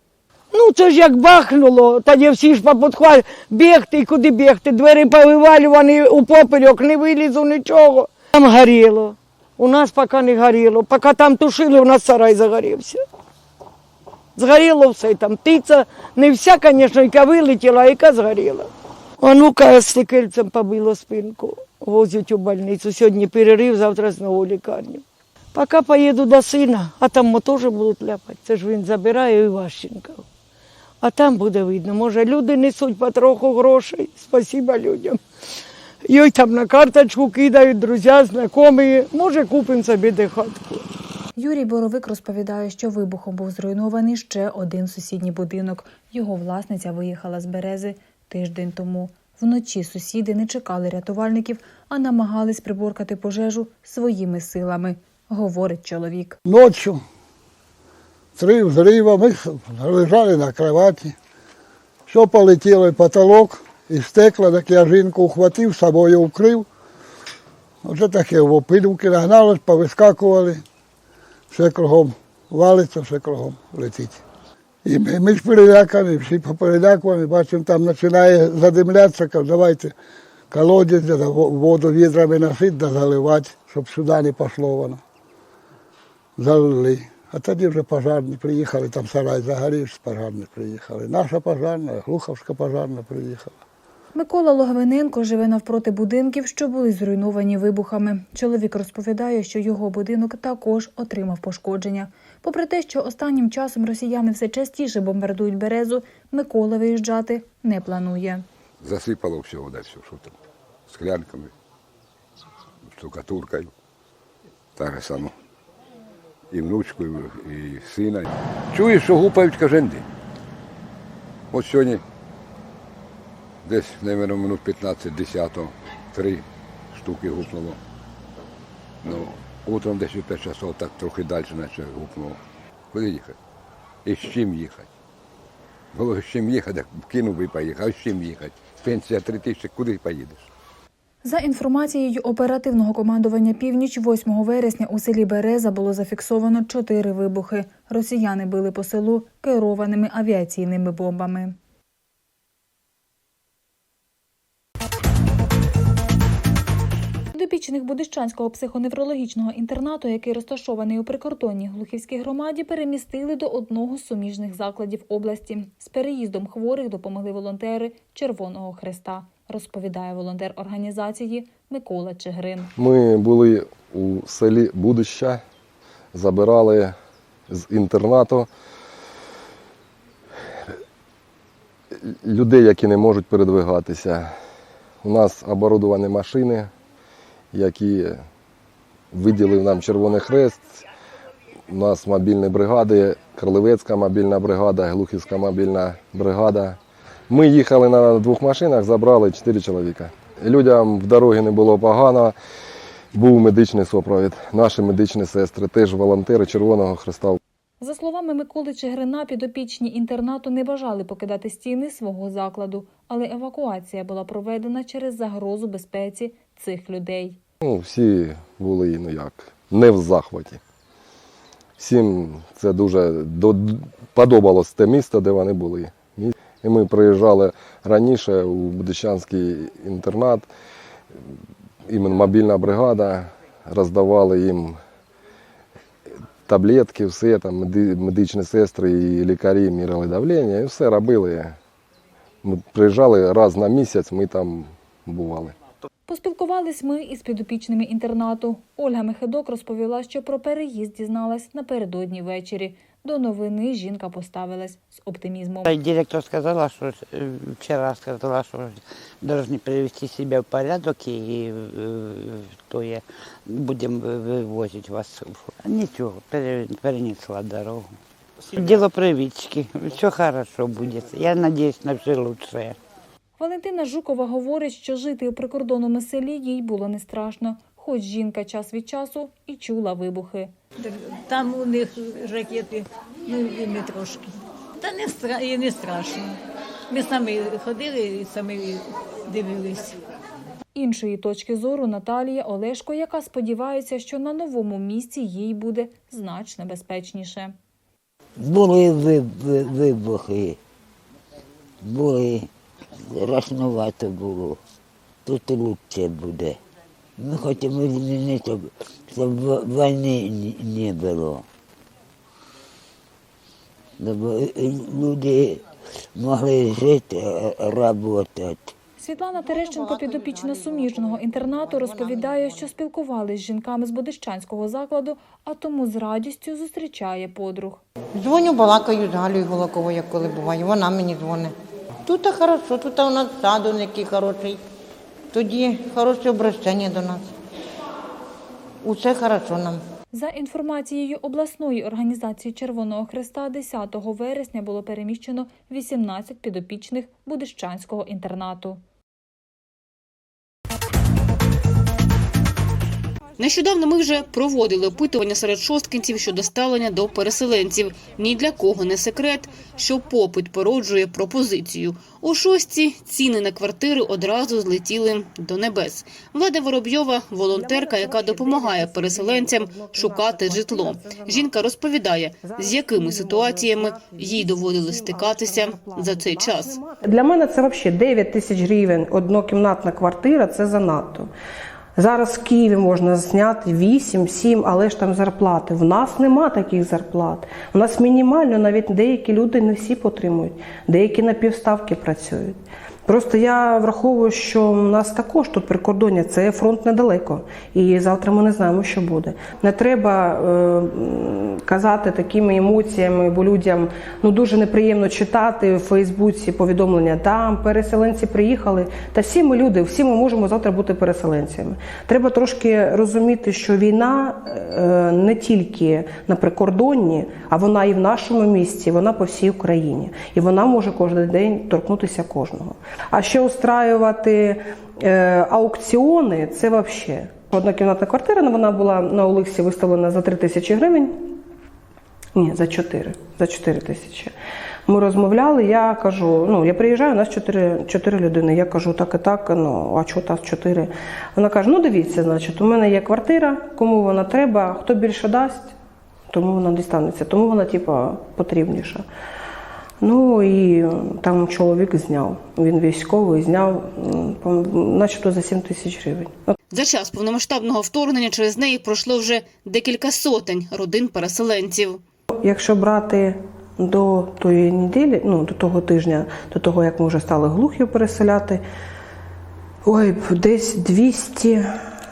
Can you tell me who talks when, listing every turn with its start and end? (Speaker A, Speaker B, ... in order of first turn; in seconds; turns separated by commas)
Speaker A: 0.5-13.0, Speaker A: 14.4-18.7, Speaker A: 19.2-30.2, Speaker A: 31.0-35.2, Speaker A: 36.0-40.8, Speaker B: 41.4-56.4, Speaker C: 56.4-57.0, Speaker C: 58.4-61.2, Speaker C: 62.1-66.7, Speaker C: 67.8-70.6, Speaker C: 71.5-74.2, Speaker C: 74.8-79.9, Speaker C: 80.5-85.0, Speaker C: 86.4-93.6, Speaker B: 94.1-108.5, Speaker D: 108.8-110.3, Speaker D: 110.9-111.5, Speaker D: 112.9-113.7, Speaker D: 114.8-115.3, Speaker D: 116.5-120.1, Speaker D: 121.5-122.0, Speaker D: 123.7-127.8, Speaker D: 129.0-132.4, Speaker D: 132.9-133.3, Speaker D: 134.0-134.9, Speaker D: 135.9-140.5, Speaker B: 141.2-151.6, Speaker B: 157.3-172.7, Speaker E: 172.8-175.4, Speaker E: 176.1-176.9, Speaker E: 177.5-178.5, Speaker E: 182.0-184.3, Speaker E: 185.0-186.7, Speaker E: 187.5-188.2, Speaker E: 189.1-190.8, Speaker E: 191.7-196.8, Speaker E: 197.3-202.3, Speaker E: 203.1-207.4, Speaker B: 207.8-217.4, Speaker E: 217.6-220.6, Speaker E: 221.8-230.5, Speaker E: 231.9-234.8, Speaker E: 236.4-241.6, Speaker E: 242.4-245.6, Speaker B: 246.1-255.7, Speaker F: 255.6-267.9, Speaker F: 268.5-272.8, Speaker B: 273.4-280.5, Speaker G: 280.8-286.4, Speaker G: 286.9-289.9, Speaker B: 290.8-297.6, Speaker H: 298.4-300.4, Speaker H: 301.9-302.3, Speaker H: 303.1-304.4, Speaker H: 305.3-306.4, Speaker H: 307.2-308.5, Speaker H: 309.1-311.3, Speaker H: 314.0-315.4, Speaker H: 316.2-317.1, Speaker H: 317.7-318.2, Speaker B: 319.0-327.8, Speaker I: 328.2-331.5, Speaker I: 332.1-334.6, Speaker I: 335.3-337.2, Speaker I: 338.9-339.8, Speaker B: 340.1-348.8, Speaker J: 353.4-376.8, Speaker K: 367.5-371.6, Speaker K: 372.4-381.3, Speaker K: 381.9-431.3, Speaker K: 432.4-434.3, Speaker K: 434.9-445.7, Speaker K: 446.3-449.1, Speaker K: 450.0-456.5, Speaker J: 456.7-462.0, Speaker K: 462.3-468.6, Speaker K: 469.9-471.7